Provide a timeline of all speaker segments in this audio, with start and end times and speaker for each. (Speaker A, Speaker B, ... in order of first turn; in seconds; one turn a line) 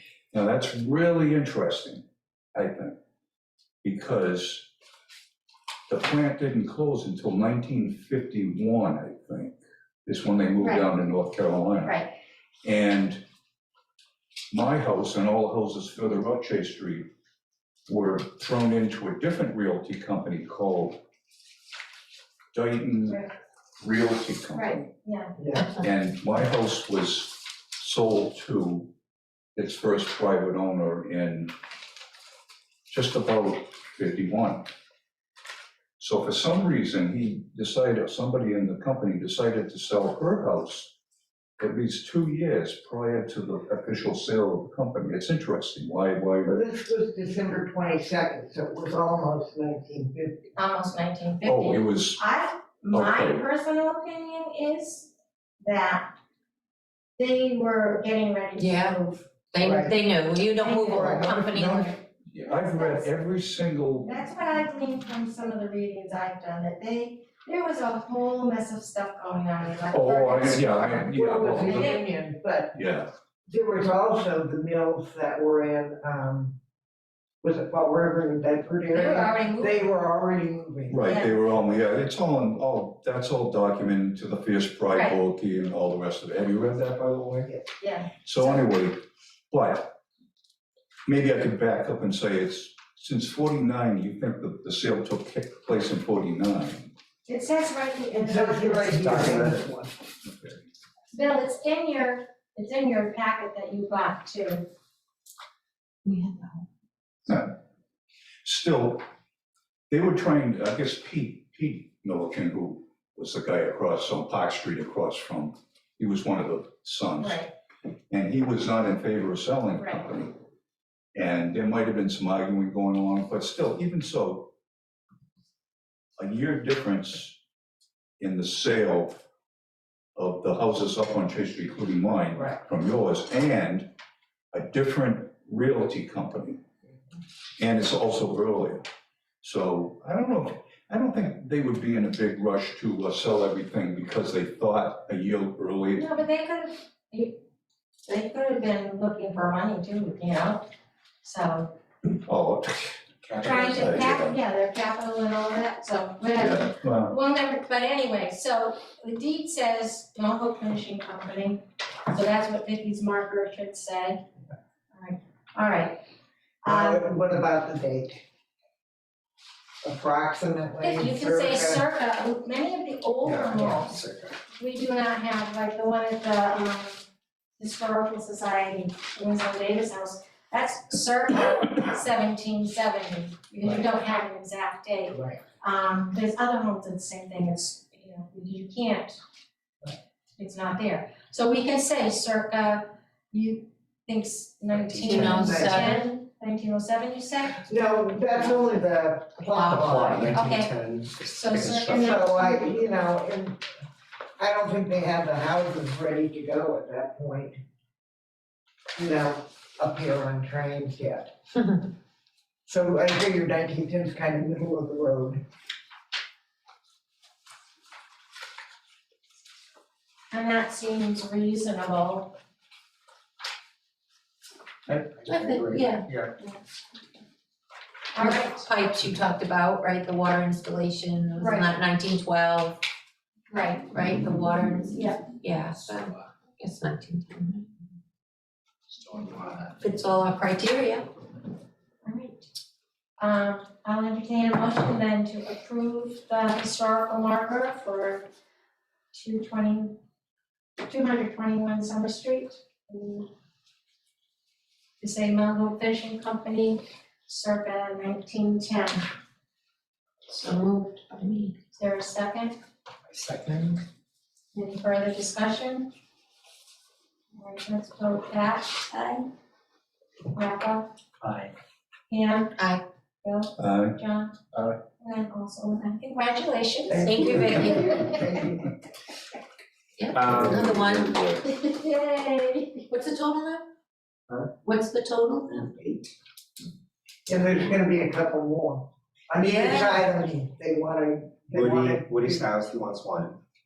Speaker A: 0.3-2.0
Speaker A: 2.5-2.9
Speaker A: 3.8-4.7
Speaker A: 5.9-9.5
Speaker A: 10.1-12.0
Speaker B: 11.8-12.1
Speaker A: 12.6-13.2
Speaker A: 14.5-17.1
Speaker A: 17.9-21.0
Speaker A: 22.5-23.2
Speaker A: 23.8-24.9
Speaker B: 24.5-25.4
Speaker C: 25.4-25.8
Speaker A: 25.8-28.9
Speaker A: 29.6-31.5
Speaker A: 32.9-34.7
Speaker A: 36.0-40.9
Speaker A: 41.6-46.6
Speaker C: 46.4-50.5
Speaker B: 50.5-56.1
Speaker A: 51.4-52.2
Speaker A: 52.9-53.4
Speaker B: 57.2-59.2
Speaker D: 58.6-59.0
Speaker D: 59.5-61.9
Speaker C: 59.6-59.9
Speaker B: 60.6-63.1
Speaker C: 60.9-61.9
Speaker A: 62.3-64.3
Speaker B: 64.0-71.1
Speaker A: 69.9-72.0
Speaker C: 71.0-72.8
Speaker B: 71.6-72.0
Speaker A: 72.7-73.1
Speaker C: 73.5-76.5
Speaker C: 77.4-81.7
Speaker B: 78.9-79.8
Speaker A: 80.9-87.5
Speaker B: 81.0-81.3
Speaker B: 84.9-85.2
Speaker B: 87.8-88.6
Speaker A: 88.2-89.0
Speaker A: 89.5-89.9
Speaker A: 91.0-96.9
Speaker B: 97.2-99.5
Speaker C: 98.1-99.9
Speaker E: 99.1-99.6
Speaker B: 101.1-104.7
Speaker D: 106.0-106.6
Speaker A: 107.2-107.5
Speaker A: 108.4-109.0
Speaker A: 109.9-117.5
Speaker B: 117.2-117.5
Speaker A: 118.1-120.3
Speaker B: 119.8-120.1
Speaker A: 121.1-124.5
Speaker A: 126.2-127.4
Speaker A: 128.2-129.2
Speaker A: 130.2-133.9
Speaker A: 134.5-136.6
Speaker A: 137.6-138.8
Speaker A: 139.4-146.1
Speaker B: 145.9-147.4
Speaker B: 148.1-150.7
Speaker B: 151.2-151.7
Speaker A: 152.2-154.4
Speaker E: 153.3-153.8
Speaker B: 153.4-164.2
Speaker A: 156.4-157.1
Speaker B: 164.9-166.0
Speaker C: 166.6-168.2
Speaker B: 166.6-167.0
Speaker C: 169.8-171.8
Speaker B: 170.8-174.0
Speaker E: 173.2-174.4
Speaker B: 174.5-177.0
Speaker B: 177.6-189.2
Speaker B: 190.4-197.7
Speaker E: 194.9-195.3
Speaker D: 195.0-196.0
Speaker C: 195.3-195.8
Speaker C: 197.6-200.4
Speaker D: 199.5-199.9
Speaker E: 199.6-202.2
Speaker B: 199.8-200.7
Speaker B: 201.3-202.8
Speaker C: 201.9-203.6
Speaker C: 204.4-207.6
Speaker C: 208.9-211.3
Speaker C: 212.7-215.4
Speaker B: 220.3-222.3
Speaker E: 224.9-226.3
Speaker D: 225.3-226.0
Speaker B: 228.1-228.6
Speaker D: 228.2-232.8
Speaker B: 231.4-231.7
Speaker B: 233.5-233.8
Speaker D: 233.8-237.7
Speaker B: 234.9-235.2
Speaker E: 239.0-239.7
Speaker D: 239.8-241.1
Speaker B: 242.0-242.5
Speaker B: 243.2-248.3
Speaker B: 249.1-250.0
Speaker B: 250.8-253.3
Speaker B: 255.0-259.1
Speaker D: 260.3-261.6
Speaker B: 261.8-262.6
Speaker E: 263.1-263.8
Speaker B: 264.5-265.9
Speaker B: 267.3-268.9
Speaker B: 270.3-270.9
Speaker E: 271.2-271.5
Speaker B: 272.1-272.6
Speaker D: 272.6-272.8
Speaker B: 273.2-274.3
Speaker A: 273.6-274.0
Speaker B: 275.0-278.1
Speaker C: 276.9-278.6
Speaker D: 276.9-278.2
Speaker D: 280.0-281.4
Speaker E: 280.1-281.3
Speaker B: 281.4-282.9
Speaker D: 282.9-283.7
Speaker D: 284.6-285.9
Speaker C: 287.3-292.5
Speaker D: 289.4-290.0
Speaker E: 291.5-293.4